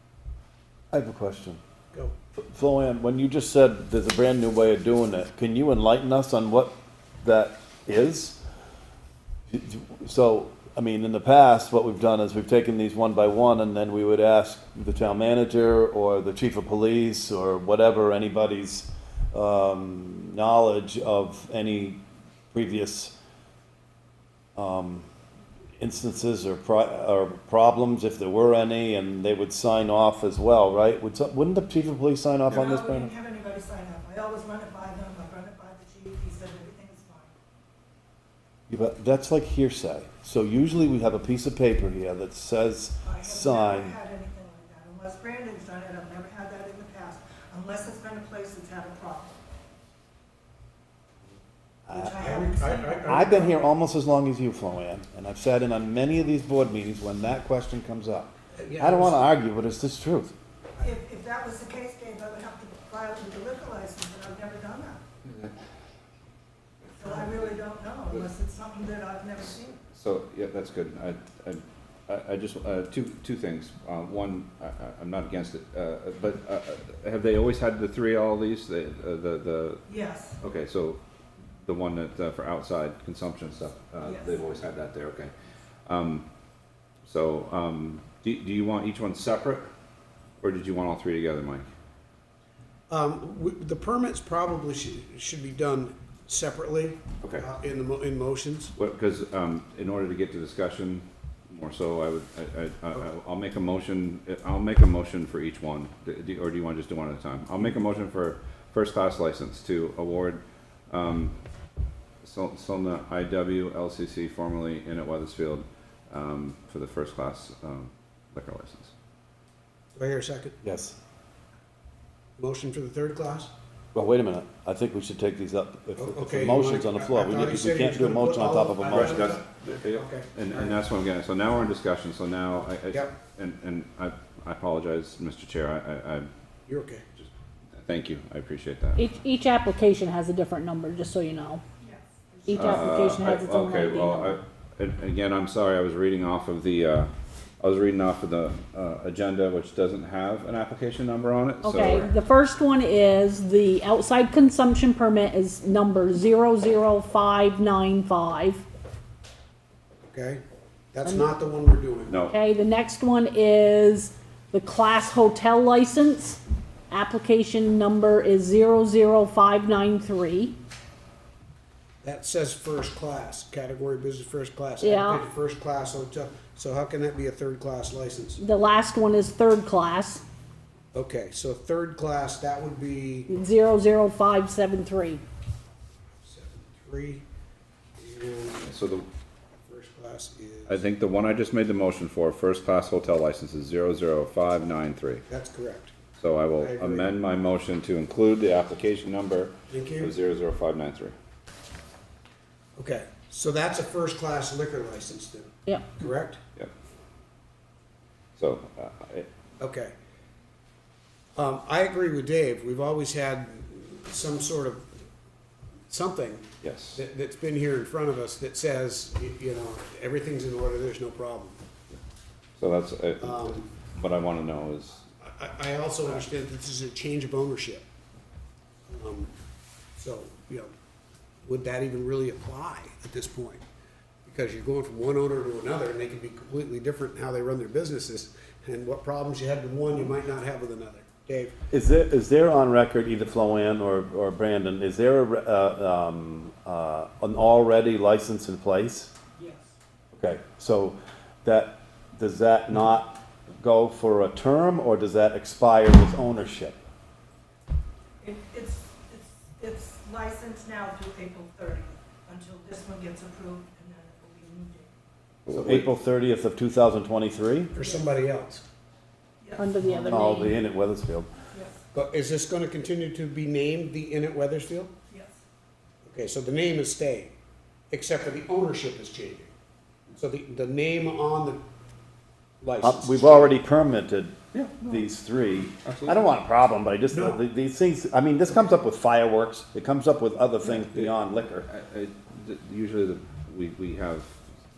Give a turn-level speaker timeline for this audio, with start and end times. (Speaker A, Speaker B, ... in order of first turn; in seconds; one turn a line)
Speaker A: 0.9-1.6
Speaker A: 2.4-8.4
Speaker A: 9.5-22.0
Speaker A: 22.5-23.1
Speaker A: 24.6-25.1
Speaker A: 25.8-33.1
Speaker B: 32.5-37.3
Speaker A: 38.7-44.0
Speaker B: 43.0-49.4
Speaker A: 51.9-52.2
Speaker B: 51.9-53.5
Speaker C: 52.2-53.5
Speaker A: 53.1-60.3
Speaker C: 58.5-59.2
Speaker B: 60.8-65.0
Speaker D: 65.2-65.5
Speaker B: 67.0-69.8
Speaker D: 69.9-79.8
Speaker B: 79.9-80.4
Speaker D: 80.4-81.0
Speaker D: 81.6-85.3
Speaker B: 84.0-84.6
Speaker D: 85.8-86.3
Speaker D: 87.0-89.7
Speaker D: 90.4-91.7
Speaker C: 92.9-98.7
Speaker D: 97.2-97.5
Speaker D: 98.8-111.4
Speaker D: 112.2-118.9
Speaker C: 119.9-120.6
Speaker A: 120.6-121.0
Speaker C: 122.4-123.5
Speaker A: 123.9-129.3
Speaker C: 126.0-130.8
Speaker D: 128.9-136.3
Speaker C: 136.7-137.0
Speaker D: 137.2-139.1
Speaker E: 138.9-141.6
Speaker B: 141.8-143.1
Speaker E: 142.5-144.4
Speaker D: 142.5-152.1
Speaker E: 151.6-158.6
Speaker C: 160.1-160.4
Speaker C: 160.9-162.3
Speaker D: 162.1-162.4
Speaker E: 162.3-166.4
Speaker E: 166.9-170.5
Speaker C: 172.0-178.4
Speaker E: 178.4-180.2
Speaker C: 180.9-183.3
Speaker E: 183.3-185.2
Speaker C: 186.2-187.2
Speaker C: 188.0-188.9
Speaker D: 188.6-189.1
Speaker C: 189.7-190.8
Speaker D: 190.7-195.2
Speaker C: 195.3-195.9
Speaker D: 196.2-201.1
Speaker C: 196.6-197.1
Speaker C: 199.7-200.1
Speaker C: 202.8-206.4
Speaker D: 208.3-209.3
Speaker C: 209.6-209.9
Speaker C: 211.3-214.9
Speaker C: 215.9-221.6
Speaker D: 216.6-217.0
Speaker D: 222.6-225.0
Speaker C: 223.2-223.7
Speaker C: 225.2-227.8
Speaker C: 228.9-229.3
Speaker C: 229.9-230.7
Speaker C: 231.4-233.6
Speaker C: 234.2-241.5
Speaker A: 241.7-249.1
Speaker A: 250.1-256.8
Speaker B: 258.2-264.9
Speaker D: 265.5-265.9
Speaker C: 265.5-265.9
Speaker A: 265.6-267.7
Speaker C: 267.7-268.6
Speaker B: 269.4-269.7
Speaker E: 269.6-270.6
Speaker A: 269.9-271.3
Speaker B: 271.5-271.8
Speaker C: 271.9-274.9
Speaker B: 275.1-275.4
Speaker C: 276.1-277.3
Speaker C: 277.9-279.5
Speaker C: 280.1-281.6
Speaker C: 282.6-283.6
Speaker A: 282.8-291.7
Speaker D: 284.5-285.1
Speaker D: 285.8-286.2
Speaker C: 287.1-287.4
Speaker D: 291.6-294.4